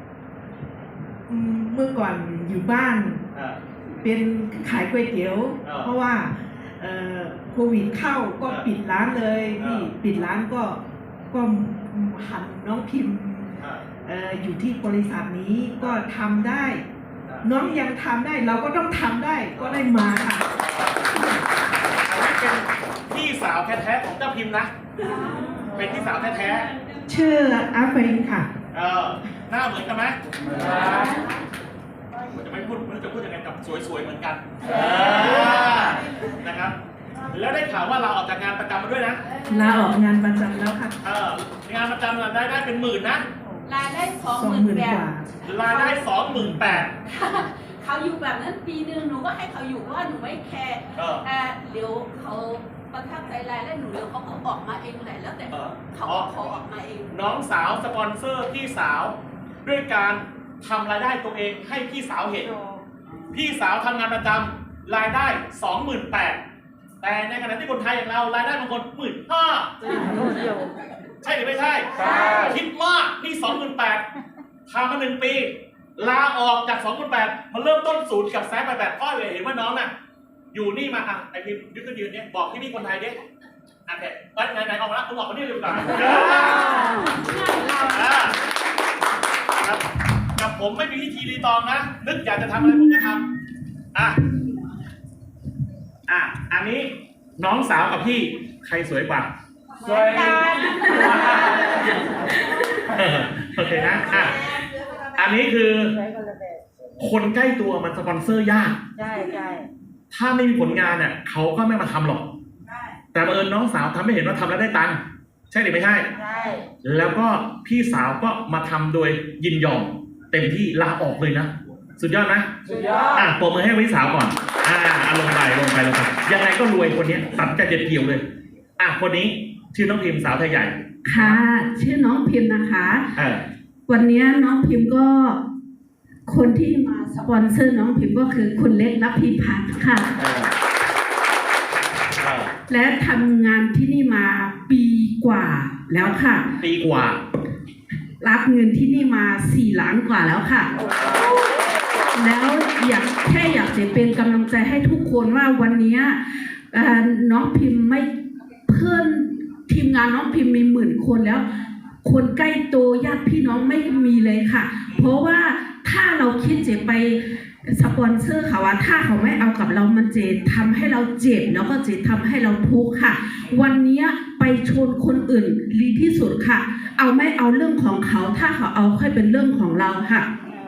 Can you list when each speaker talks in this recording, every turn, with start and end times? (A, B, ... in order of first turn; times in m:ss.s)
0:01.3-0:03.2 A
0:03.3-0:03.6 B
0:04.0-0:16.8 A
0:05.6-0:05.9 B
0:09.6-0:09.9 B
0:13.6-0:13.8 B
0:17.4-0:20.5 A
0:20.6-0:21.1 B
0:22.0-0:24.7 B
0:25.7-0:26.7 B
0:27.1-0:28.5 A
0:28.7-0:31.1 B
0:32.3-0:36.8 B
0:37.3-0:39.2 B
0:39.4-0:39.7 C
0:39.5-0:41.0 A
0:41.0-0:43.2 B
0:43.6-0:46.0 C
0:44.2-0:45.3 A
0:45.4-0:46.9 B
0:46.3-0:46.8 A
0:47.0-0:57.1 C
0:51.0-0:51.2 B
0:55.5-0:56.3 B
0:57.1-1:02.5 B
1:02.5-1:02.8 A
1:03.3-1:06.4 B
1:07.0-1:09.7 B
1:11.2-1:14.0 B
1:14.7-1:19.9 B
1:20.5-1:23.2 B
1:23.9-1:26.9 B
1:27.8-1:28.4 B
1:30.4-1:33.2 B
1:36.1-1:39.3 B
1:39.9-1:40.5 D
1:39.9-1:41.6 C
1:42.7-1:44.6 B
1:45.2-1:46.0 B
1:46.0-1:46.6 D
1:47.0-1:48.8 B
1:49.0-1:49.7 D
1:50.1-1:52.3 B
1:53.1-1:56.1 B
1:56.2-1:56.6 D
1:56.8-2:02.5 B
2:03.1-2:08.2 B
2:08.8-2:11.4 B
2:11.0-2:13.1 E
2:13.2-2:13.4 B
2:13.9-2:15.4 E
2:16.3-2:20.1 E
2:20.2-2:20.5 B
2:22.2-2:22.5 B
2:22.7-2:26.5 E
2:26.6-2:27.2 B
2:28.2-2:30.7 E
2:32.1-2:38.1 E
2:38.7-2:41.4 E
2:42.0-3:00.3 E